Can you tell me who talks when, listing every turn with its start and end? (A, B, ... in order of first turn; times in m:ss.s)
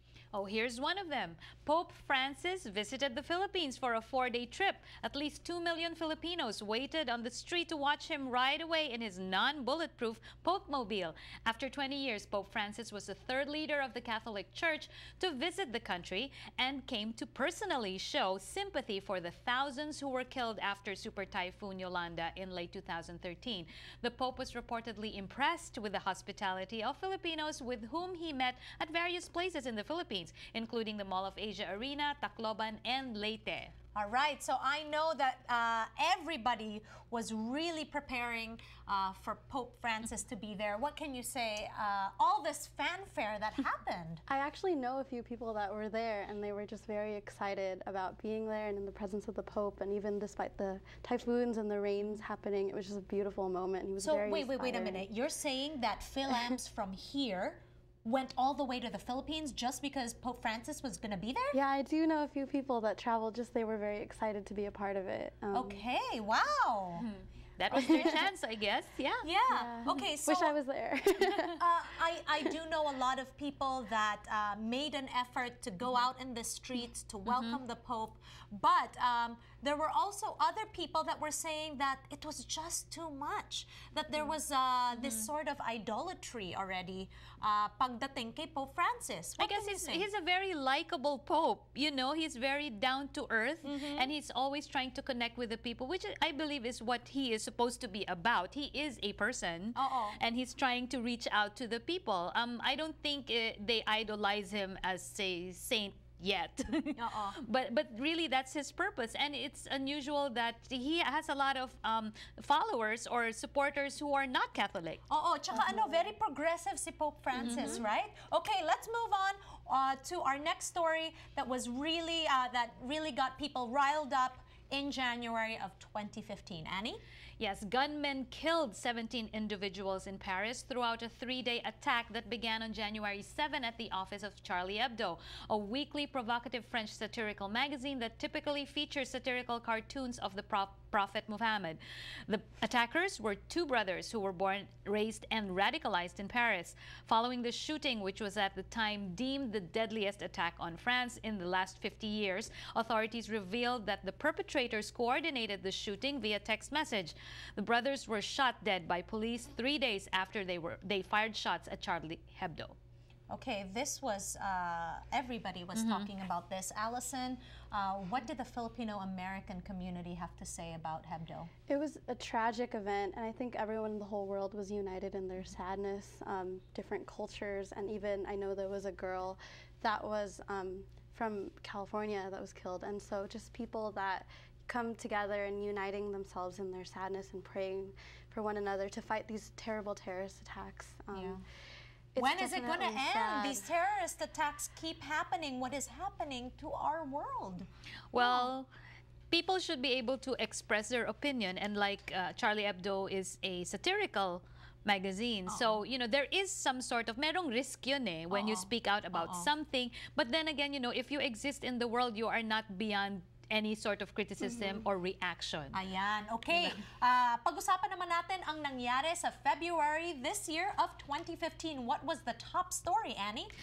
0:00.3-0:33.7 A
0:34.0-0:44.2 B
0:44.3-0:55.1 C
0:54.0-1:01.6 B
1:01.5-1:05.8 C
1:05.5-1:07.1 B
1:07.0-1:09.3 A
1:07.7-1:08.3 C
1:09.2-1:10.6 B
1:09.5-1:11.6 C
1:11.2-1:30.1 B
1:17.3-1:17.6 A
1:25.0-1:25.3 A
1:29.4-1:55.0 A
1:33.6-1:34.1 B
1:39.8-1:40.2 B
1:47.0-1:47.4 B
1:55.1-2:07.0 B
1:57.4-1:57.8 A
2:07.4-2:42.8 A
2:43.3-2:51.5 B
2:45.8-2:46.1 A
2:51.7-3:11.4 C
3:11.1-3:11.4 B
3:12.2-3:13.7 C
3:12.2-3:17.7 B
3:18.1-3:18.7 A
3:19.3-3:35.8 A
3:25.5-3:25.8 B
3:28.3-3:29.5 B
3:35.7-3:43.5 B
3:36.5-3:36.8 A